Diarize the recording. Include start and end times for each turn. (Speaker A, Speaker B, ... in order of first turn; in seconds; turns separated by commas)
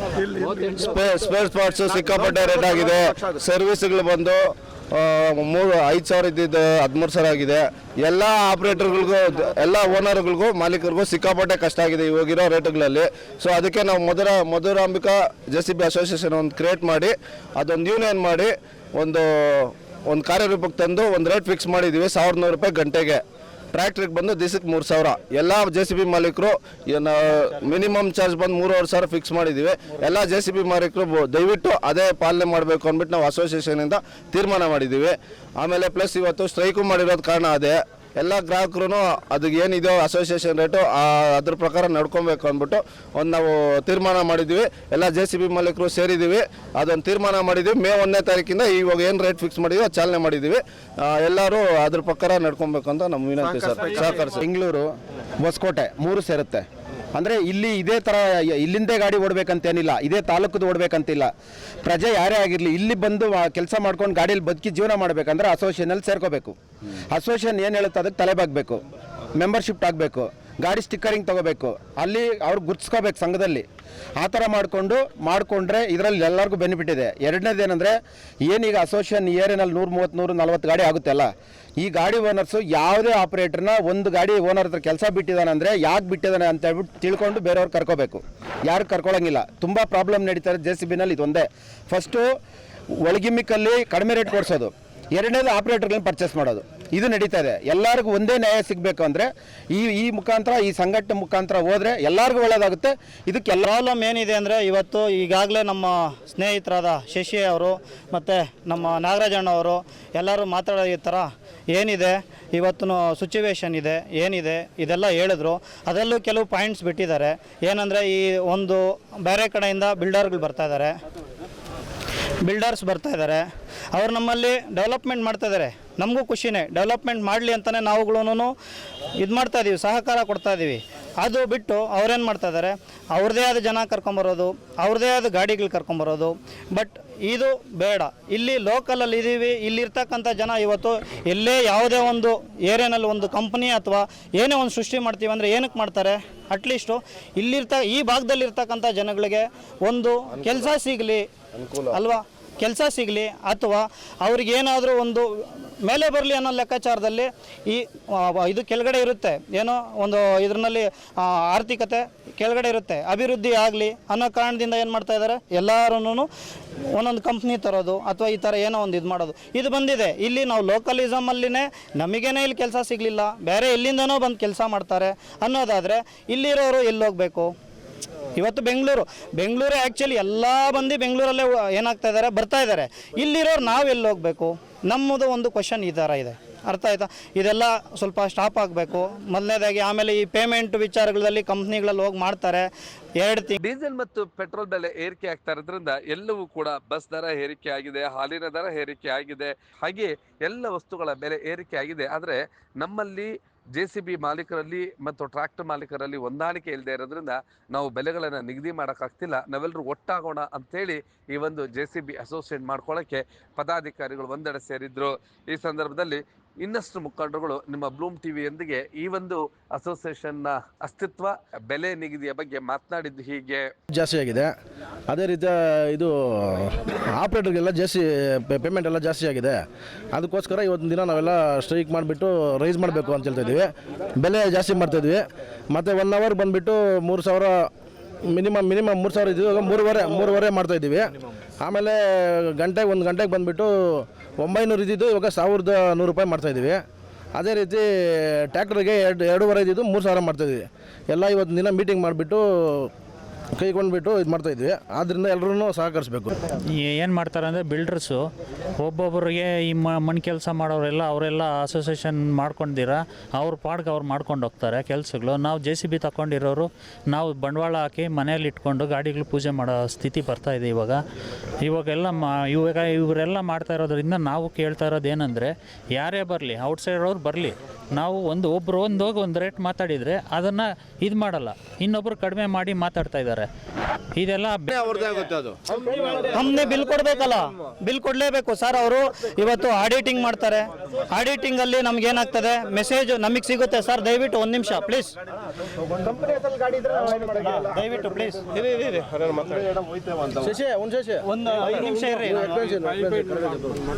Speaker A: 0.4-23.2, Speaker A: 23.7-54.4, Speaker B: 54.3-54.9, Speaker B: 55.4-61.3, Speaker B: 61.8-66.5, Speaker B: 67.1-68.8, Speaker B: 69.4-73.7, Speaker B: 74.2-92.3, Speaker B: 93.0-103.7, Speaker C: 103.6-120.9, Speaker C: 122.4-128.5, Speaker C: 129.2-151.2, Speaker C: 151.8-166.3, Speaker C: 166.9-177.5, Speaker C: 178.3-192.7, Speaker C: 193.2-193.6, Speaker D: 193.6-223.7, Speaker E: 223.9-224.5, Speaker E: 225.1-229.6, Speaker E: 230.1-237.7, Speaker E: 238.3-241.1, Speaker E: 241.6-246.8, Speaker E: 247.4-252.9, Speaker E: 253.6-256.4, Speaker F: 256.8-258.2, Speaker F: 258.8-271.0, Speaker F: 271.6-283.5, Speaker F: 284.2-284.7, Speaker A: 284.8-285.5, Speaker C: 286.3-295.1, Speaker B: 296.1-296.7, Speaker C: 297.5-298.4, Speaker E: 300.4-303.8, Speaker C: 301.3-302.5